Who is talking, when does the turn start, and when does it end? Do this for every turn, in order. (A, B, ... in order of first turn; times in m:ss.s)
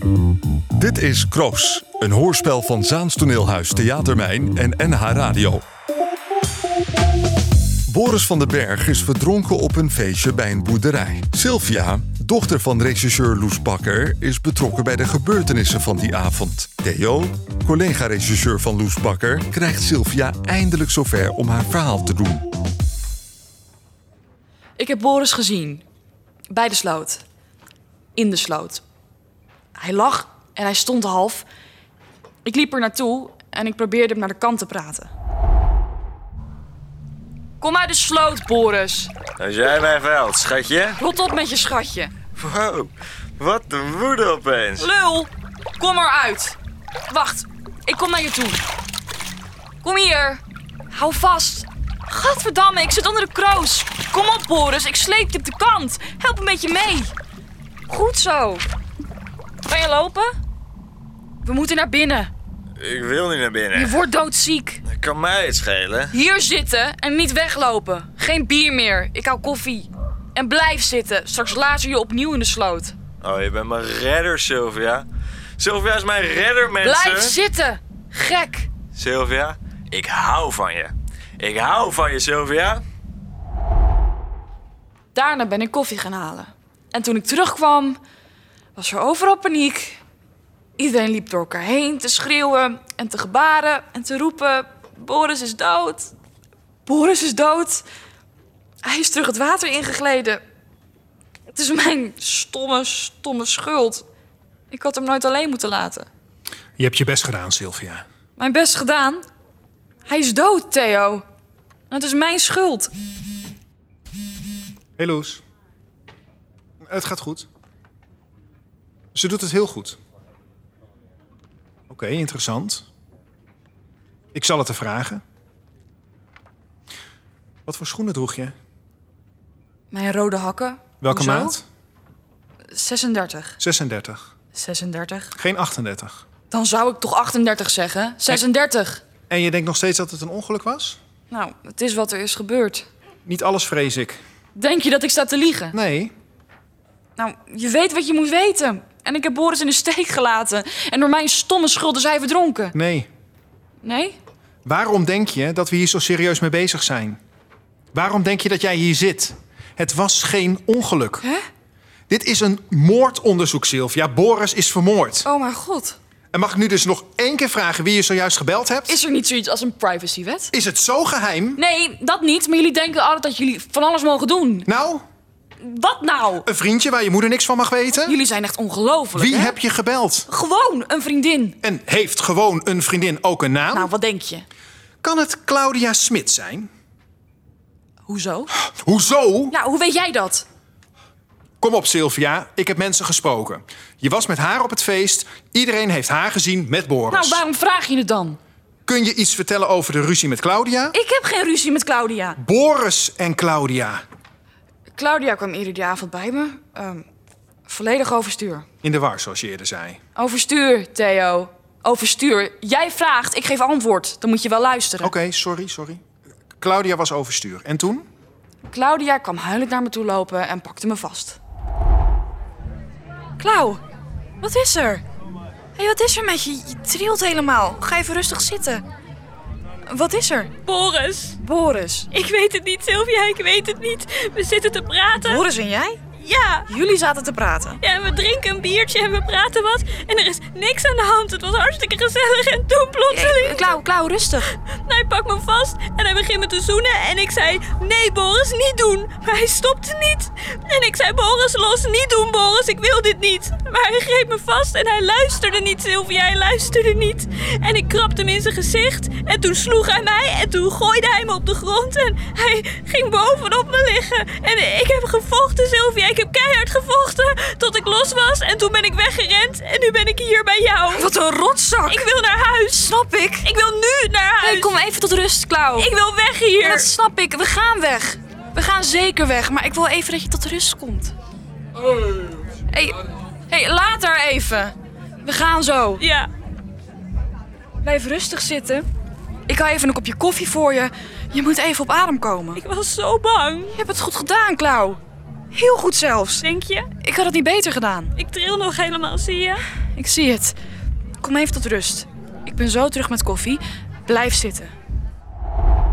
0:00.8-0:05.6 A
0:07.9-0:22.5 A
0:24.8-0:25.8 B
0:26.5-0:27.2 B
0:28.2-0:28.8 B
0:29.8-0:31.5 B
0:32.4-0:35.1 B
0:37.6-0:39.1 B
0:39.4-0:41.0 C
0:41.0-0:42.1 B
0:42.4-0:44.9 C
0:44.8-0:46.6 B
0:47.1-0:48.6 B
0:49.8-0:57.1 B
0:57.9-0:58.7 B
0:59.6-1:00.3 B
1:01.4-1:02.3 B
1:02.8-1:04.1 C
1:03.7-1:04.8 B
1:04.9-1:06.1 C
1:06.1-1:13.0 B
1:13.2-1:15.1 C
1:15.6-1:17.4 C
1:16.8-1:18.7 B
1:18.9-1:22.8 C
1:25.1-1:28.0 B
1:28.8-1:30.0 B
1:30.8-1:36.1 B
1:36.8-1:37.8 B
1:38.8-1:40.4 B
1:41.5-1:44.0 B
1:44.7-1:46.1 B
1:46.8-1:48.0 D
1:48.4-1:49.2 B
1:50.1-1:51.2 B
1:51.9-1:52.9 B
1:55.0-1:55.4 D
1:56.8-1:57.5 D
1:59.1-2:00.0 D
2:01.9-2:02.9 D
2:04.3-2:05.2 D
2:07.7-2:08.5 D
2:09.9-2:11.6 B
2:11.0-2:11.6 D
2:12.7-2:13.6 B
2:13.6-2:14.2 D
2:14.5-2:15.4 B
2:15.4-2:16.2 D
2:16.5-2:19.0 B
2:19.3-2:21.0 D
2:21.3-2:22.9 B
2:23.2-2:24.2 D
2:24.6-2:25.8 B
2:25.7-2:26.1 D
2:27.2-2:32.8 B
2:32.7-2:33.1 D
2:33.8-2:34.2 B
2:34.6-2:37.2 D
2:37.9-2:41.2 D
2:42.1-2:45.3 D
2:45.2-2:46.0 B
2:46.3-2:49.0 D
2:48.9-2:50.5 B
2:50.5-2:51.6 D
2:51.6-2:54.7 B
2:54.7-2:55.0 D
2:55.6-2:56.5 B
2:56.4-2:58.2 D
2:58.0-2:59.6 B
2:59.2-3:00.3 D
3:00.3-3:01.6 B
3:01.6-3:03.9 D
3:03.7-3:04.4 B
3:05.0-3:06.7 D
3:08.1-3:08.5 B
3:08.7-3:09.6 D
3:09.5-3:10.5 B
3:11.6-3:17.4 D
3:17.1-3:18.4 B
3:18.9-3:21.0 D
3:20.9-3:22.4 B
3:22.4-3:24.0 D
3:25.0-3:27.0 B
3:27.7-3:28.6 B
3:28.8-3:30.0 D
3:30.2-3:35.1 B
3:35.0-3:36.0 D
3:36.6-3:38.1 D
3:38.7-3:41.4 B
3:43.4-3:43.8 B
3:44.4-3:45.0 B
3:45.8-3:48.8 B
3:49.9-3:50.5 B
3:50.6-3:51.4 E
3:51.4-3:52.1 B
3:52.1-3:55.4 E
3:55.2-3:56.0 B
3:56.2-3:56.7 E
3:56.7-3:57.8 B
3:57.8-4:03.8 E
4:03.1-4:04.5 B
4:04.5-4:31.1 E
4:30.9-4:32.0 B
4:31.9-4:34.8 E
4:32.8-4:33.5 B
4:34.4-4:35.9 B
4:35.8-4:36.9 E
4:36.6-4:41.1 B
4:42.7-4:46.0 B
4:46.0-4:46.3 E
4:47.8-4:48.9 B
4:49.5-4:52.6 B
4:52.6-4:53.8 E
4:53.7-4:55.0 B
4:55.5-4:56.5 B
4:56.4-4:56.9 E
4:57.0-4:58.1 B
4:58.2-4:59.7 E
4:59.9-5:00.6 B
5:01.2-5:04.7 B